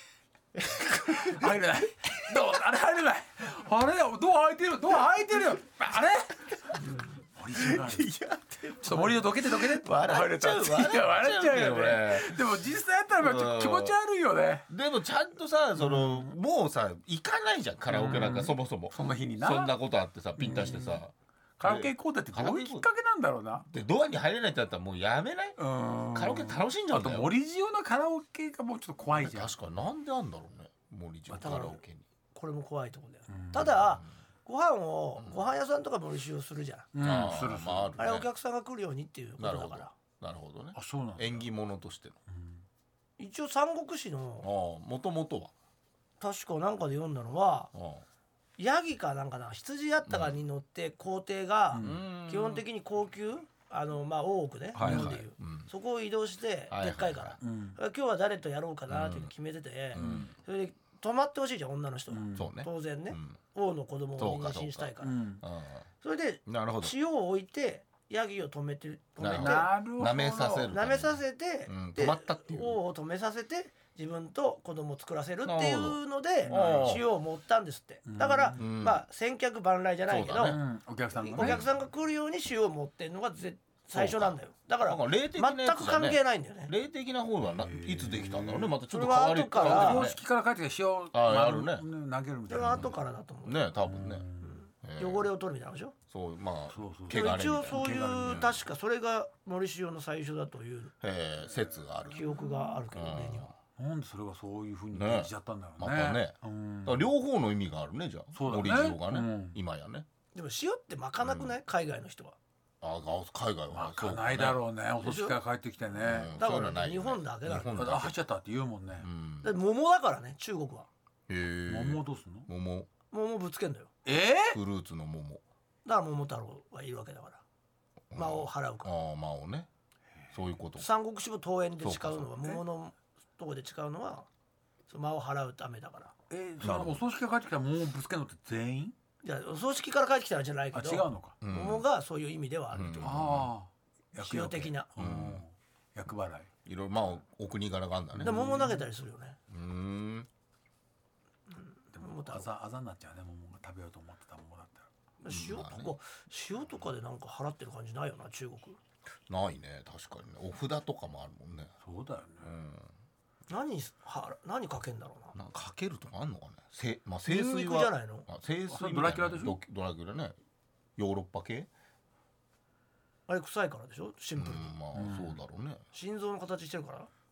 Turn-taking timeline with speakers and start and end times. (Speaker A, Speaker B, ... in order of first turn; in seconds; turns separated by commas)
Speaker A: 0.6-1.5, Speaker B: 1.1-8.1, Speaker A: 7.6-12.4, Speaker B: 8.8-14.7, Speaker A: 13.2-14.0, Speaker A: 14.7-22.8, Speaker B: 15.8-16.3, Speaker B: 17.9-19.8, Speaker B: 20.4-21.0, Speaker B: 21.6-23.7, Speaker A: 23.7-25.6, Speaker B: 25.6-29.5, Speaker A: 26.1-27.3, Speaker A: 29.1-32.0, Speaker C: 31.3-31.8, Speaker C: 32.3-36.9, Speaker B: 33.3-33.7, Speaker A: 33.6-33.9, Speaker B: 36.9-38.1, Speaker A: 37.0-38.3, Speaker C: 38.0-39.9, Speaker A: 39.4-42.2, Speaker B: 40.8-41.5, Speaker B: 42.3-42.6, Speaker C: 43.2-44.5, Speaker A: 44.4-45.5, Speaker C: 46.2-47.7, Speaker A: 47.7-48.0, Speaker C: 48.6-65.2, Speaker A: 50.1-50.3, Speaker B: 51.7-52.0, Speaker A: 51.8-52.6, Speaker A: 54.7-55.7, Speaker B: 54.8-55.2, Speaker A: 56.7-57.4, Speaker B: 57.4-57.8, Speaker A: 58.9-59.3, Speaker A: 59.9-60.3, Speaker B: 60.0-60.3, Speaker B: 62.1-62.5, Speaker A: 62.4-63.4, Speaker A: 64.2-65.9, Speaker B: 65.0-65.4, Speaker C: 66.0-69.7, Speaker A: 66.5-66.9, Speaker A: 69.2-72.8, Speaker B: 69.3-70.7, Speaker C: 70.7-80.6, Speaker A: 75.5-77.0, Speaker B: 76.5-77.0, Speaker B: 78.1-78.6, Speaker A: 78.6-79.0, Speaker A: 80.1-80.6, Speaker B: 80.4-81.7, Speaker C: 81.2-86.7, Speaker A: 81.4-81.7, Speaker A: 83.9-90.2, Speaker B: 87.5-88.8, Speaker C: 88.9-90.1, Speaker B: 89.5-93.0, Speaker A: 91.1-91.9, Speaker C: 92.5-93.6, Speaker A: 92.6-94.3, Speaker B: 93.8-94.6, Speaker C: 94.4-96.0, Speaker A: 94.8-95.3, Speaker A: 96.1-98.6, Speaker B: 96.7-98.6, Speaker C: 97.1-100.9, Speaker A: 101.0-102.3, Speaker C: 102.1-103.5, Speaker A: 102.9-103.5, Speaker B: 103.8-107.1, Speaker A: 104.9-110.1, Speaker B: 108.3-109.6, Speaker C: 110.3-112.4, Speaker A: 111.2-111.5, Speaker A: 112.8-114.6, Speaker B: 113.7-116.4, Speaker C: 115.0-115.4, Speaker A: 116.0-118.2, Speaker C: 116.4-118.0, Speaker B: 117.6-119.1, Speaker A: 119.0-119.5, Speaker C: 119.4-120.9, Speaker A: 121.3-122.9, Speaker B: 121.7-122.5, Speaker C: 123.1-123.9, Speaker B: 124.1-124.6, Speaker A: 124.5-125.4, Speaker C: 125.8-127.4, Speaker A: 128.1-129.7, Speaker C: 128.1-128.9, Speaker A: 130.3-130.9, Speaker C: 130.8-134.3, Speaker A: 131.8-132.6, Speaker C: 134.9-136.1, Speaker B: 136.3-138.9, Speaker A: 136.6-137.0, Speaker C: 139.2-143.2, Speaker B: 140.7-141.4, Speaker A: 141.4-141.9, Speaker A: 142.7-143.5, Speaker B: 143.0-146.5, Speaker C: 144.2-144.9, Speaker A: 145.0-145.4, Speaker A: 146.7-148.5, Speaker B: 148.2-148.8, Speaker C: 148.2-149.4, Speaker A: 149.5-150.3, Speaker C: 151.6-152.5, Speaker B: 152.0-154.9, Speaker C: 155.2-158.8, Speaker A: 155.3-155.9, Speaker A: 159.3-161.7, Speaker B: 161.8-162.5, Speaker A: 162.4-162.9, Speaker C: 163.5-165.3, Speaker A: 165.3-170.4, Speaker C: 167.3-168.3, Speaker B: 168.7-169.6, Speaker A: 171.0-171.7, Speaker C: 173.3-174.7, Speaker A: 174.4-175.8, Speaker B: 174.9-175.4, Speaker C: 175.9-177.1